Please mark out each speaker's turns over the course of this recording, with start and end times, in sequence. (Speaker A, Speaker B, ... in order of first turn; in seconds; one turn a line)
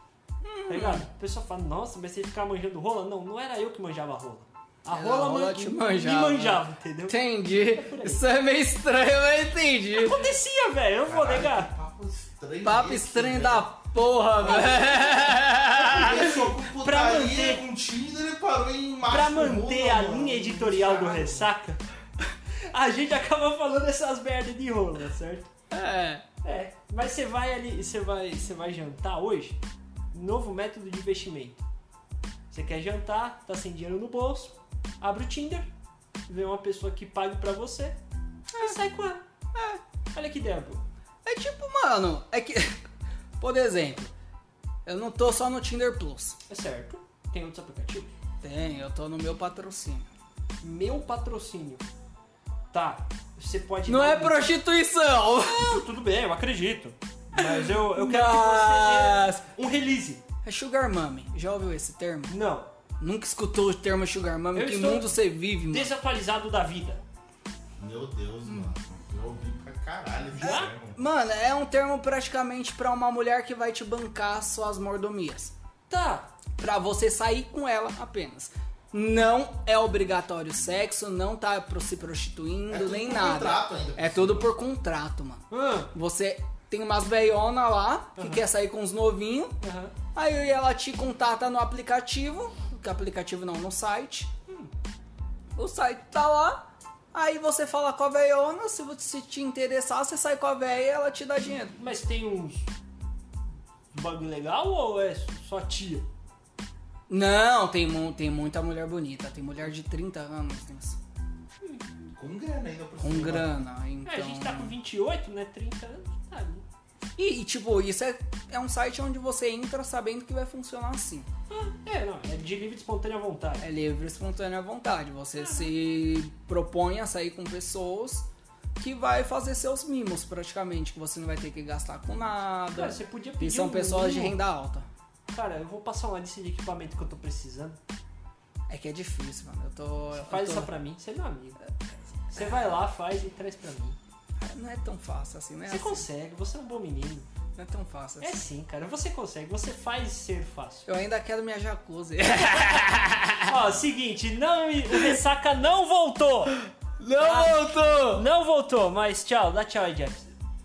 Speaker A: 0.4-1.1
Speaker B: 0.7-8.2
Speaker A: 4.9-10.3
Speaker B: 9.9-11.7
Speaker C: 11.1-13.7
Speaker A: 12.6-16.5
Speaker C: 14.4-21.5
Speaker B: 16.0-17.7
Speaker B: 19.1-21.8
Speaker B: 22.7-25.5
Speaker A: 25.7-26.2
Speaker B: 26.4-29.6
Speaker B: 30.1-31.6
Speaker B: 32.5-35.7
Speaker B: 36.3-38.0
Speaker B: 38.5-39.2
Speaker A: 39.5-39.8
Speaker B: 40.1-40.9
Speaker A: 41.2-42.8
Speaker A: 43.4-44.1
Speaker A: 44.9-46.4
Speaker B: 46.5-48.1
Speaker A: 48.4-50.1
Speaker B: 50.6-51.9
Speaker B: 52.7-54.5
Speaker A: 53.9-55.6
Speaker B: 55.4-60.2
Speaker A: 57.4-59.4
Speaker A: 60.4-62.3
Speaker B: 62.3-62.7
Speaker A: 63.0-65.9
Speaker B: 64.5-65.1
Speaker B: 65.7-67.0
Speaker C: 67.8-71.0
Speaker B: 70.3-70.7
Speaker A: 70.4-75.5
Speaker B: 75.9-76.3
Speaker A: 76.6-89.6
Speaker C: 82.7-84.5
Speaker B: 85.5-85.9
Speaker B: 88.2-88.4
Speaker B: 89.6-89.9
Speaker A: 90.2-94.3
Speaker A: 95.6-101.8
Speaker B: 101.8-102.7
Speaker B: 103.9-106.1
Speaker A: 107.1-111.0
Speaker B: 111.6-112.0
Speaker C: 112.2-113.6
Speaker A: 113.0-114.7
Speaker B: 114.0-116.7
Speaker A: 117.2-121.3
Speaker B: 121.5-123.7
Speaker A: 123.6-134.9
Speaker B: 125.3-125.7
Speaker B: 132.7-134.4
Speaker B: 135.3-137.8
Speaker A: 138.7-140.7
Speaker B: 140.1-141.6
Speaker B: 142.3-144.0
Speaker A: 144.4-146.1
Speaker B: 145.7-147.3
Speaker A: 147.6-148.4
Speaker B: 148.2-150.9
Speaker A: 150.9-153.5
Speaker B: 153.4-156.6
Speaker A: 156.6-158.2
Speaker B: 157.2-160.3